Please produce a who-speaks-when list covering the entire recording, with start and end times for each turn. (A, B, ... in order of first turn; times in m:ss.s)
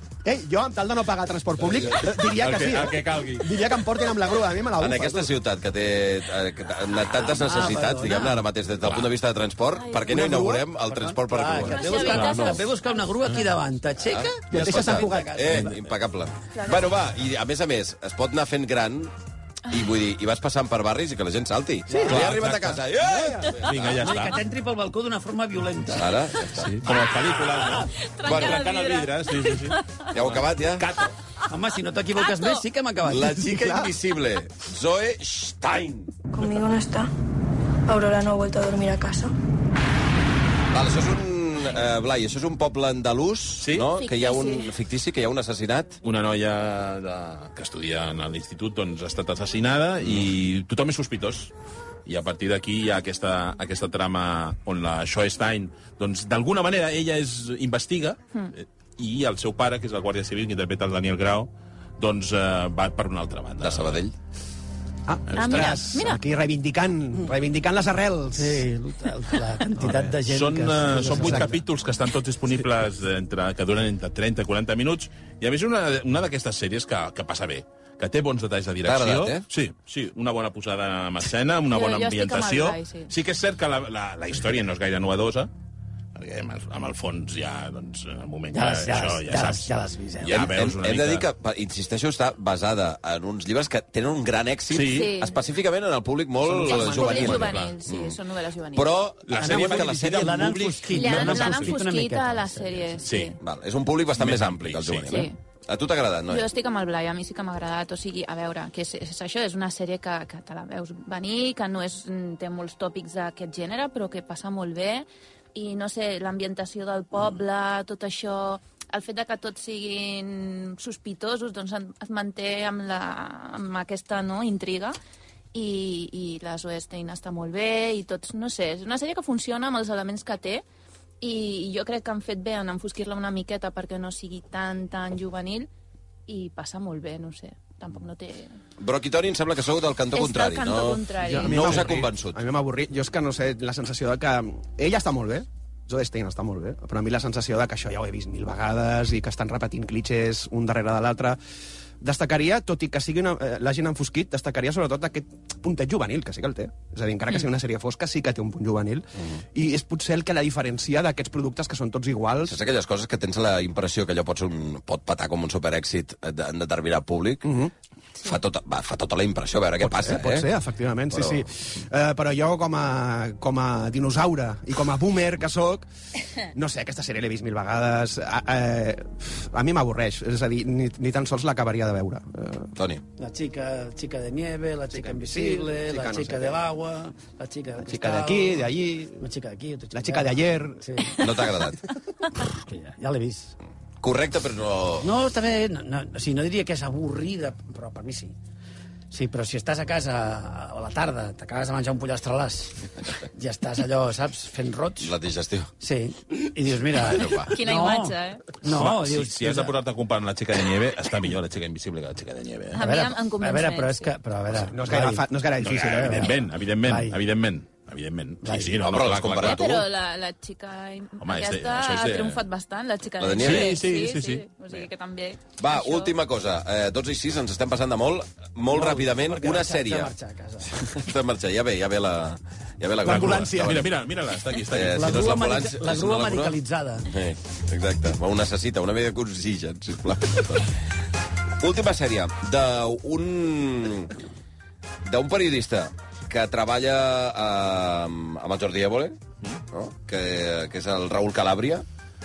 0:00.2-0:05.3 A
0:01.6-0:03.5 B
0:04.8-0:12.6 C
0:07.2-0:08.4 D
0:09.7-0:10.2 E
0:10.1-0:10.6 A
0:10.9-0:15.8 D
0:11.6-0:13.0 E
0:14.0-0:19.1 C
0:14.5-0:15.7 A
0:16.5-0:16.9 E
0:19.7-0:24.0 C
0:21.9-0:22.2 D
0:22.0-0:22.9 B
0:23.0-0:23.6 A
0:23.5-0:24.4 B
0:24.0-0:26.1 D
0:25.9-0:26.8 C
0:26.5-0:31.1 B
0:27.4-0:30.0 E
0:28.2-0:28.6 C
0:30.1-0:30.9 C
0:31.5-0:33.8 D
0:32.1-0:32.6 E
0:33.0-0:36.1 C
0:33.5-0:33.8 A
0:36.3-0:37.1 F
0:37.9-0:39.3 F
0:40.7-0:46.0 C
0:43.6-0:43.9 B
0:44.0-0:44.7 E
0:46.0-0:51.5 B
0:50.0-0:50.3 C
0:52.0-1:04.0 B
1:03.6-1:04.1 C
1:05.1-1:08.6 A
1:05.3-1:05.9 B
1:05.3-1:06.2 E
1:08.3-1:11.6 D
1:09.8-1:25.5 B
1:11.1-1:11.5 A
1:18.8-1:19.4 C
1:21.7-1:23.1 E
1:26.1-1:29.7 B
1:28.5-1:30.4 D
1:30.2-1:31.3 B
1:30.2-1:38.2 C
1:34.7-1:35.1 B
1:34.9-1:35.3 E
1:36.5-1:37.7 B
1:36.6-1:39.0 E
1:38.7-1:40.5 C
1:39.2-1:41.8 B
1:39.4-1:43.2 D
1:40.9-1:43.4 E
1:43.0-1:43.3 B
1:43.4-1:46.5 C
1:44.2-1:45.2 B
1:45.1-1:45.4 E
1:46.3-2:05.0 E
2:05.5-2:10.6 E
2:11.2-2:15.7 E
2:16.3-2:18.6 E
2:18.8-2:22.4 C
2:20.1-2:21.7 E
2:21.2-2:31.4 A
2:32.0-2:42.6 A
2:42.4-2:47.5 C
2:47.4-2:47.7 A
2:48.2-2:50.5 C
2:49.8-2:55.9 A
2:51.1-2:51.5 C
2:56.4-3:02.7 A
3:02.7-3:03.0 C
3:03.2-3:11.2 D
3:04.9-3:06.6 A
3:07.8-3:09.2 A
3:09.9-3:11.1 A
3:11.1-3:11.8 C
3:12.4-3:13.6 D
3:14.0-3:15.1 C
3:15.0-3:18.3 D
3:19.1-3:25.1 D
3:25.0-3:25.7 C
3:25.8-3:29.7 D
3:26.9-3:27.5 C
3:27.5-3:28.5 E
3:28.7-3:32.8 B
3:32.7-3:34.1 E
3:32.7-3:37.2 D
3:34.6-3:36.5 A
3:35.6-3:39.8 B
3:38.4-3:38.8 D
3:38.8-3:39.6 C
3:39.4-3:46.1 E
3:41.2-3:42.4 B
3:43.2-3:43.8 C
3:43.4-3:44.5 B
3:45.6-3:50.1 C
3:48.7-3:50.9 D
3:50.7-3:53.9 C
3:53.0-3:53.8 A
3:53.0-3:55.2 B
3:54.7-4:00.7 C
3:54.9-3:57.1 D
4:01.6-4:04.1 C
4:05.0-4:11.8 C